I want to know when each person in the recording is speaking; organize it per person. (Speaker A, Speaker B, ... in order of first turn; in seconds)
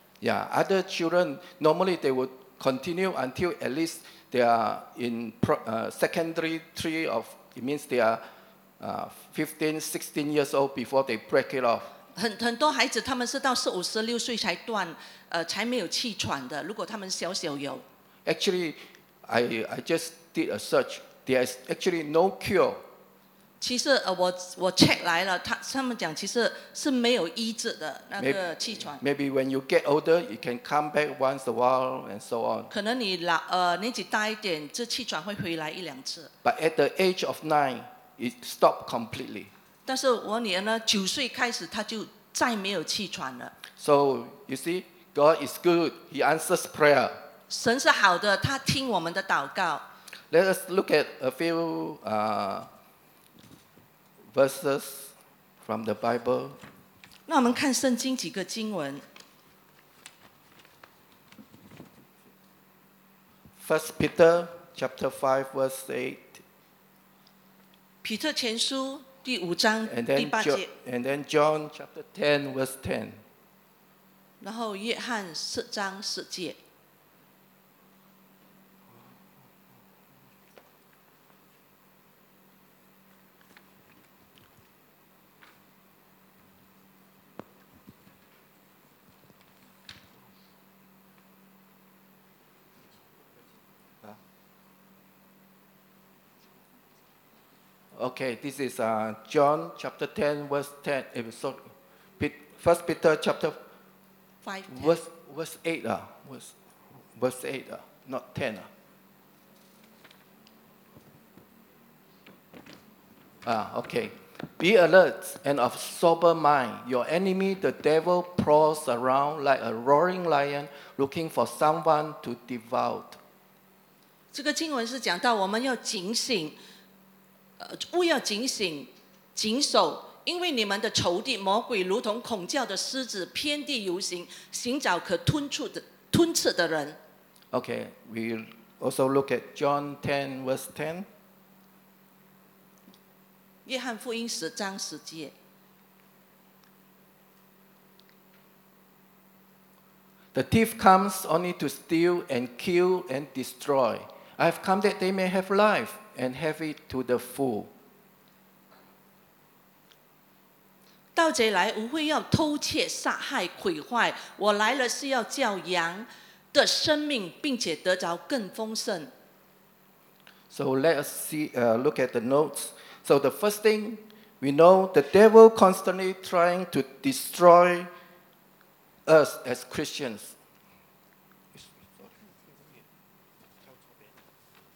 Speaker A: 0.2-8.2, 8.8-11.9, 18.2-22.8, 28.2-32.7, 36.4-39.5, 43.8-47.1, 50.3-52.7, 54.3-56.6, 63.6-66.4, 69.9-73.2, 97.9-103.6, 104.7-106.5, 107.2-108.7, 113.4-123.2, 137.5-141.1, 150.3-157.7, 170.5-177.9, 179.1-180.3, 181.5-182.1
Speaker B: 12.2-17.8, 23.6-29.0, 32.7-36.3, 39.9-43.5, 47.5-49.8, 57.3-59.0, 68.0-70.7, 74.4-76.6, 104.4-105.0, 124.3-126.6, 127.6-137.0, 143.7-145.3, 161.1-169.1